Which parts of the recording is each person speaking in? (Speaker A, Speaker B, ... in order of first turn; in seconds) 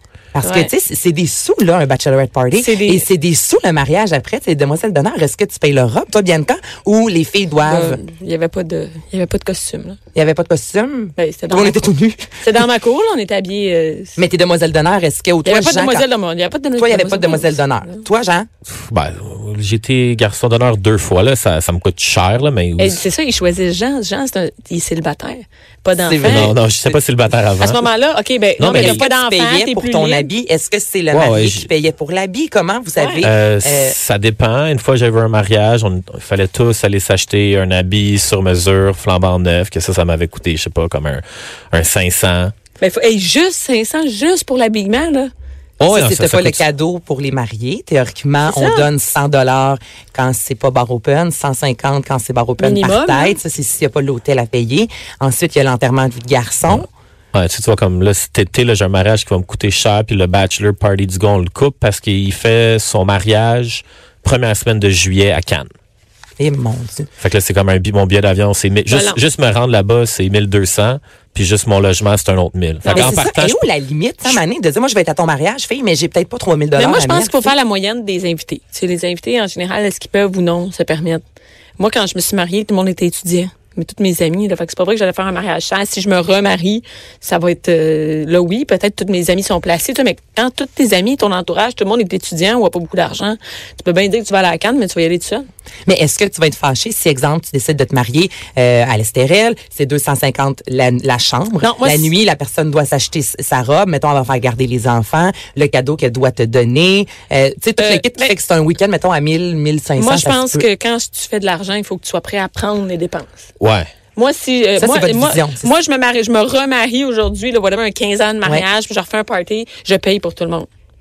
Speaker A: 0.3-8.0, 10.1-12.6, 14.2-16.1, 16.8-18.5, 26.0-27.0, 28.6-34.0, 45.9-56.9, 66.4-67.1, 72.9-77.5, 95.9-110.7, 114.8-115.7
Speaker B: 0.4-0.7, 2.6-3.1, 7.6-10.0, 11.2-11.8, 12.4-14.2, 15.4-18.0, 22.8-26.5, 27.6-30.3, 33.0-33.2, 42.8-45.3, 48.5-48.9, 52.6-53.4, 68.9-69.2, 72.8-73.2, 76.8-81.2, 81.8-95.5, 101.6-102.1, 107.8-108.3, 110.0-113.5, 114.2-120.7
Speaker C: 18.7-23.0, 26.2-27.8, 28.6-29.1, 31.1-31.7, 33.2-42.5, 45.8-46.6, 56.7-65.7, 67.2-73.6, 113.6-113.9